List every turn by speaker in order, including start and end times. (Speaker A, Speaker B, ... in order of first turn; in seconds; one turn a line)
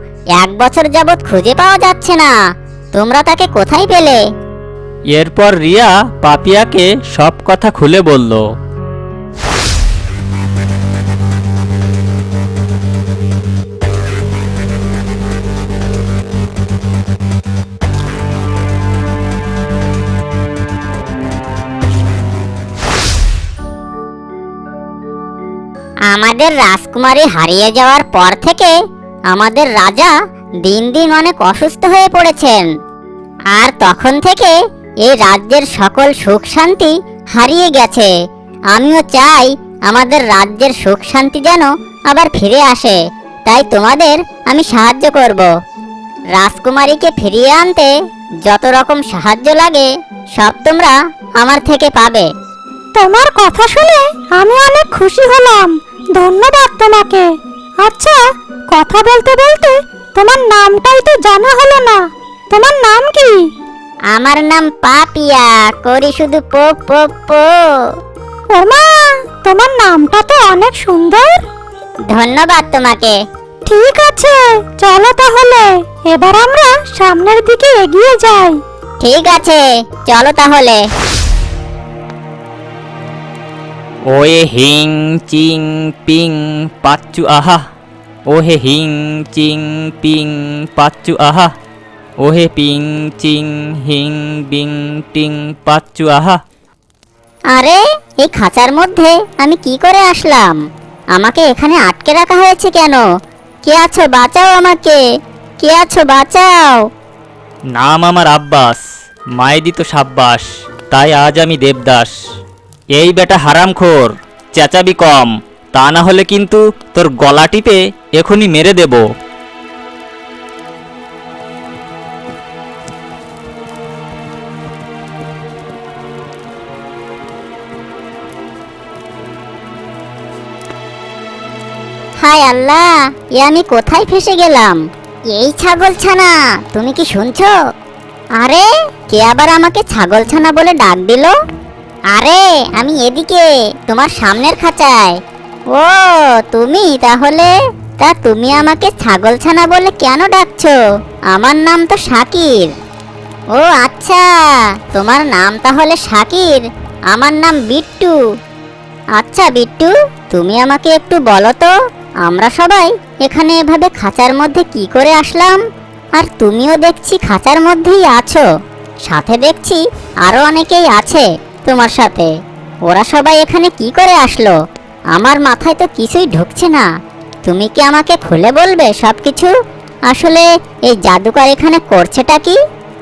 Speaker A: 0.3-2.3
Speaker A: 3.0-4.2
Speaker B: 5.1-8.4
Speaker A: 26.1-28.7
Speaker A: 29.3-30.1
Speaker A: 30.6-32.7
Speaker A: 33.5-34.5
Speaker A: 35.0-38.1
Speaker A: 38.7-45.5
Speaker A: 46.4-47.9
Speaker A: 48.5-52.3
Speaker C: 53.0-57.2
Speaker C: 57.8-58.2
Speaker C: 58.7-62.0
Speaker C: 62.5-63.4
Speaker A: 64.1-67.5
Speaker C: 68.5-68.9
Speaker C: 69.4-71.4
Speaker A: 72.1-73.2
Speaker C: 73.7-78.6
Speaker A: 79.0-80.8
Speaker B: 84.1-87.6
Speaker B: 88.3-91.5
Speaker B: 92.2-96.4
Speaker A: 97.5-100.6
Speaker A: 101.2-103.0
Speaker A: 103.7-105.0
Speaker A: 105.6-106.8
Speaker B: 107.8-108.8
Speaker B: 109.4-112.1
Speaker B: 113.0-119.0
Speaker A: 132.2-134.8
Speaker A: 135.3-137.5
Speaker A: 138.4-141.3
Speaker A: 142.1-145.2
Speaker A: 145.7-150.8
Speaker A: 151.3-152.7
Speaker A: 153.5-158.1
Speaker A: 159.2-161.7
Speaker A: 162.2-165.6
Speaker A: 166.2-168.4
Speaker A: 169.1-172.3
Speaker A: 172.9-174.5
Speaker A: 175.2-176.9
Speaker A: 177.5-179.5
Speaker A: 180.1-182.6